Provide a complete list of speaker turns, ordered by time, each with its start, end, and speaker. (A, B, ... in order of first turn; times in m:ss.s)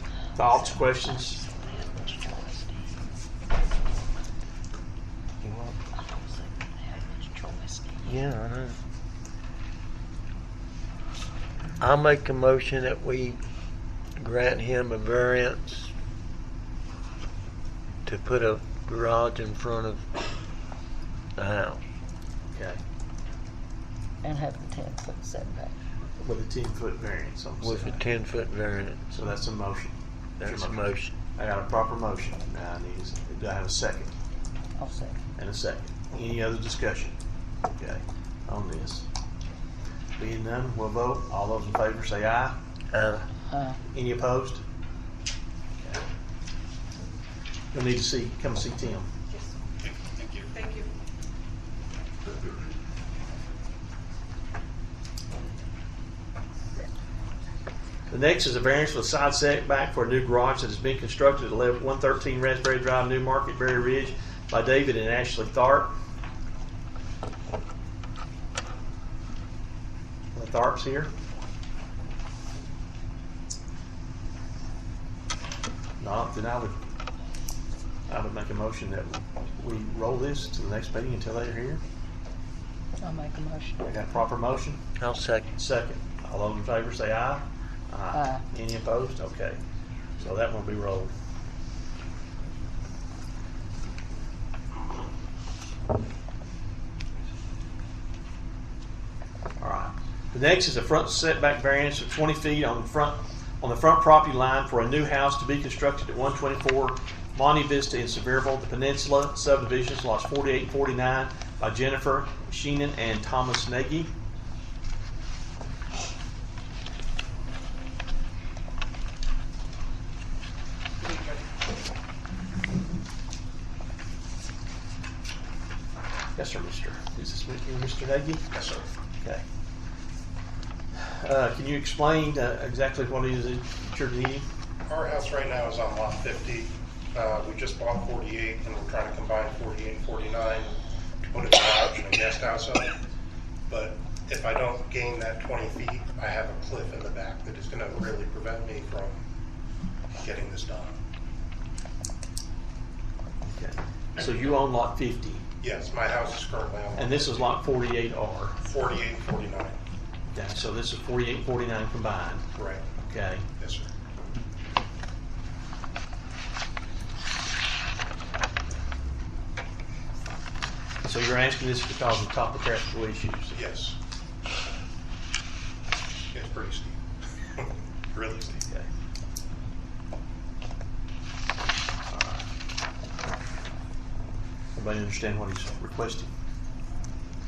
0:00.3-0:01.4 A
0:00.4-0:02.9 B
0:05.4-0:05.9 C
0:05.9-0:08.1 B
0:08.0-0:08.8 C
0:11.8-0:13.4 C
0:14.2-0:15.9 C
0:18.0-0:20.1 C
0:21.4-0:21.8 C
0:22.5-0:22.8 A
0:24.2-0:25.7 B
0:26.2-0:28.0 A
0:27.6-0:29.1 C
0:29.1-0:34.1 A
0:30.4-0:31.1 C
0:34.8-0:35.2 B
0:35.4-0:37.1 A
0:37.8-0:39.0 A
0:40.2-0:42.5 A
0:42.9-0:43.3 C
0:43.5-0:43.8 B
0:43.8-0:44.6 A
0:47.7-0:49.1 A
0:49.8-0:50.5 D
0:58.1-1:05.9 A
1:10.3-1:11.1 A
1:16.0-1:16.8 A
1:18.1-1:21.8 A
1:23.0-1:24.0 B
1:23.8-1:24.8 A
1:25.0-1:25.5 C
1:25.6-1:29.6 A
1:28.1-1:28.4 B
1:30.2-1:31.1 A
1:39.6-1:54.1 A
2:06.4-2:08.5 A
2:08.5-2:08.8 D
2:10.9-2:14.4 A
2:14.8-2:23.0 D
2:23.7-2:29.2 D
2:30.2-2:31.0 D
2:33.5-2:35.4 A
2:35.6-2:37.5 D
2:37.0-2:38.6 A
2:38.6-2:39.8 D
2:40.3-2:42.4 A
2:42.6-2:42.9 D
2:43.0-2:43.4 A
2:43.6-2:43.9 D
2:51.0-2:53.6 A
2:53.5-2:54.0 D
2:56.3-2:57.0 D
2:57.5-2:58.6 D
3:02.1-3:02.4 A
3:04.7-3:06.3 A